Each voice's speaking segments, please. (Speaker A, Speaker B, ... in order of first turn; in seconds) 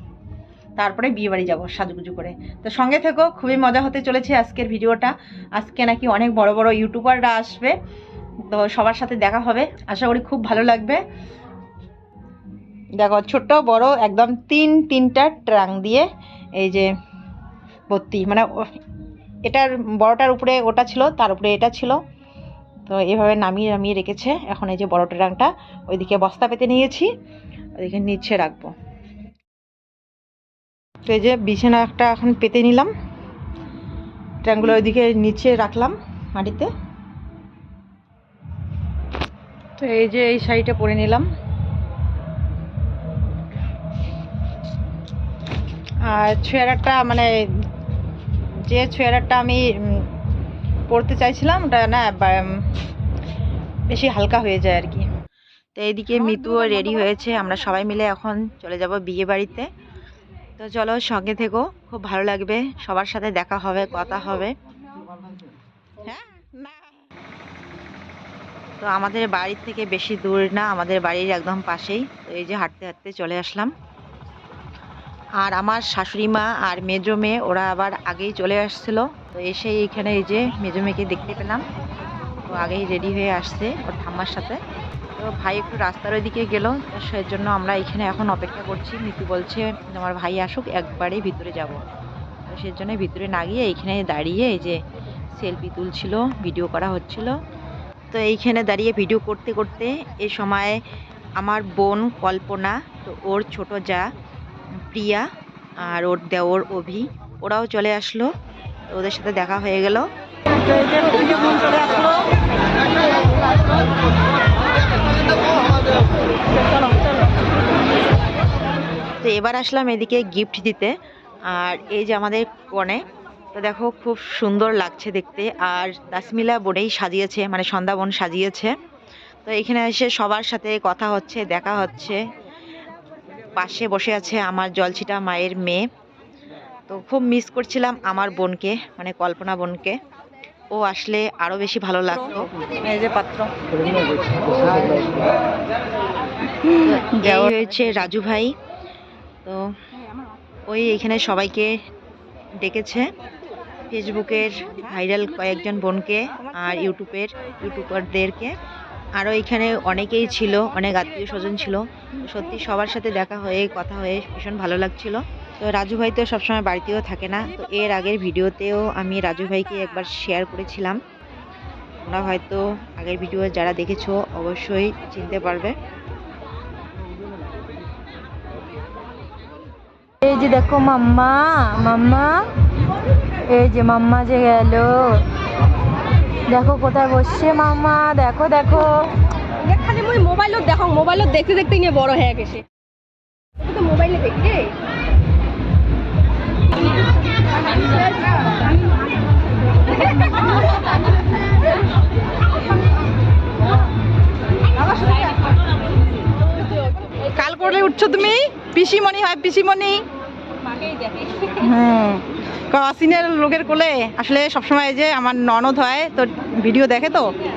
Speaker A: 0.8-7.7, 8.5-11.0, 13.0-16.1, 16.6-16.9, 17.9-18.5, 19.5-22.0, 22.9-27.1, 27.8-28.7, 31.1-32.9, 34.4-36.7, 39.8-41.2, 46.1-47.3, 48.7-50.0, 50.9-52.5, 53.9-55.0, 56.2-57.0, 142.8-143.5, 207.3-210.0, 211.6-212.2, 212.7-217.3
Speaker B: 55.8-59.7, 60.6-64.5, 68.8-73.7, 75.4-81.6, 82.5-84.6, 85.2-91.8, 92.5-94.8, 95.3-97.3, 98.1-100.8, 101.4-104.1, 104.9-105.3, 105.8-108.3, 108.9-110.0, 119.2-120.9, 121.5-123.0, 123.5-128.7, 129.4-132.2, 133.6-135.8, 136.9-140.0, 140.7-142.5, 146.8-148.5, 150.7-151.7, 152.6-153.1, 153.9-158.5, 159.2-171.0, 172.0-175.7
Speaker C: 180.3-182.2, 183.6-184.9, 186.5-188.3
Speaker D: 189.6-192.6, 193.6-194.7